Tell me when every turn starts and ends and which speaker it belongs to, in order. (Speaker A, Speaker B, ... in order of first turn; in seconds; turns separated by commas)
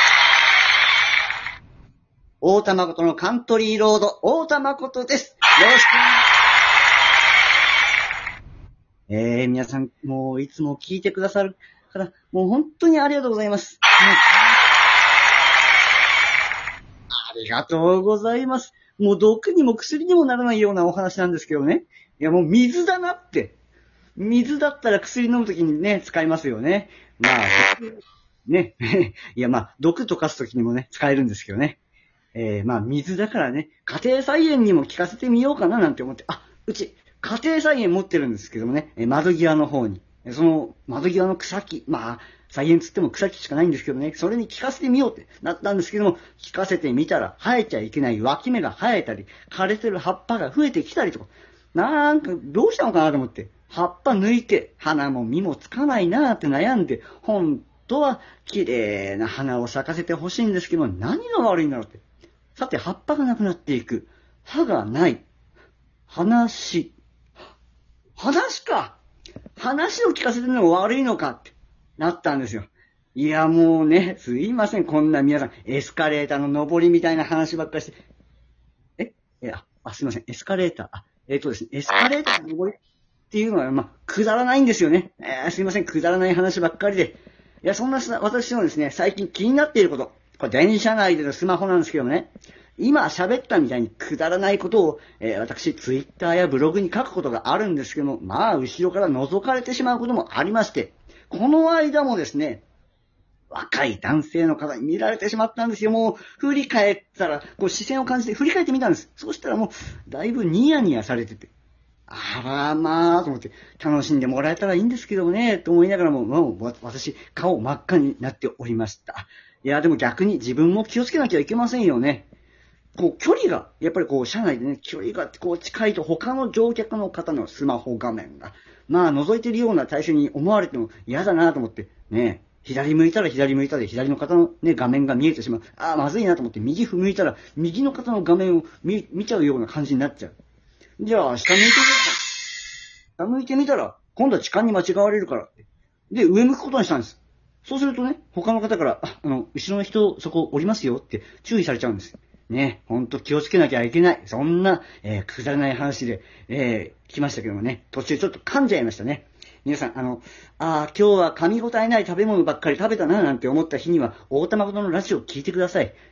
Speaker A: 2.4-6.2, Speaker A: 9.1-14.5, Speaker A: 17.1-23.6, Speaker A: 24.2-31.8, Speaker A: 32.3-62.0, Speaker A: 62.5-65.2, Speaker A: 66.1-66.9, Speaker A: 68.2-69.0, Speaker A: 69.5-78.0, Speaker A: 79.0-82.7, Speaker A: 83.3-102.6, Speaker A: 103.5-111.5, Speaker A: 112.1-122.3, Speaker A: 123.0-140.3, Speaker A: 141.0-142.2, Speaker A: 143.2-145.6, Speaker A: 146.1-165.9